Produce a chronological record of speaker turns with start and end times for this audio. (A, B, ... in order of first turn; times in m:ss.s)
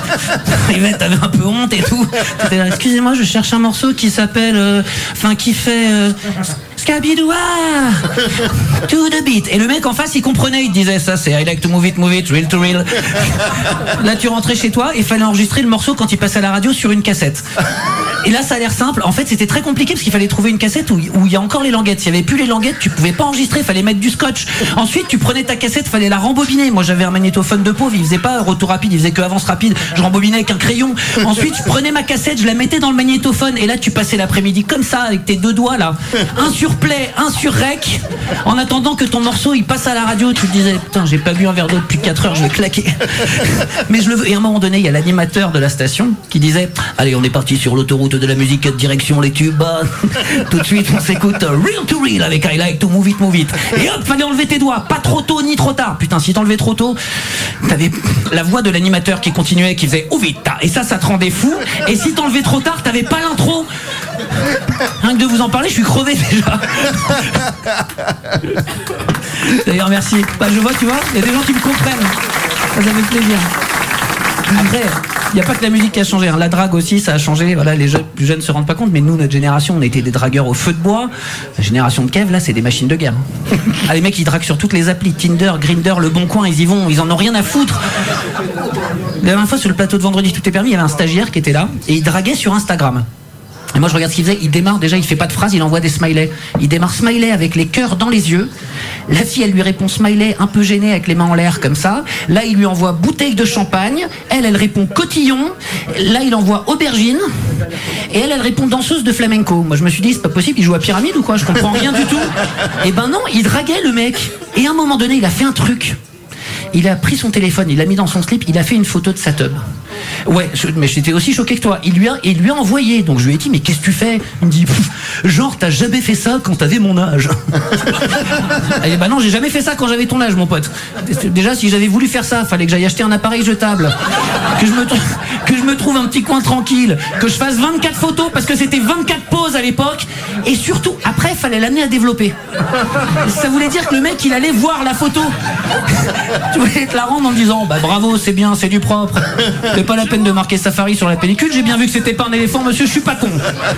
0:00.4-0:06.2 A
0:06.8-0:08.0 A
0:08.8-0:17.4 A
0:18.2-0:57.0 A
0:57.6-1:03.7 A
1:05.0-1:07.4 A
1:09.4-1:12.1 A
1:12.8-1:13.4 A
1:14.5-1:27.8 A
1:29.2-1:33.0 A
1:33.7-1:38.5 A
1:39.1-1:47.3 A
1:48.1-1:56.0 A
1:56.7-1:59.6 A
2:00.2-2:07.4 A
2:08.8-2:13.9 A
2:14.5-2:22.3 A
2:23.2-2:25.3 A
2:25.9-2:33.5 A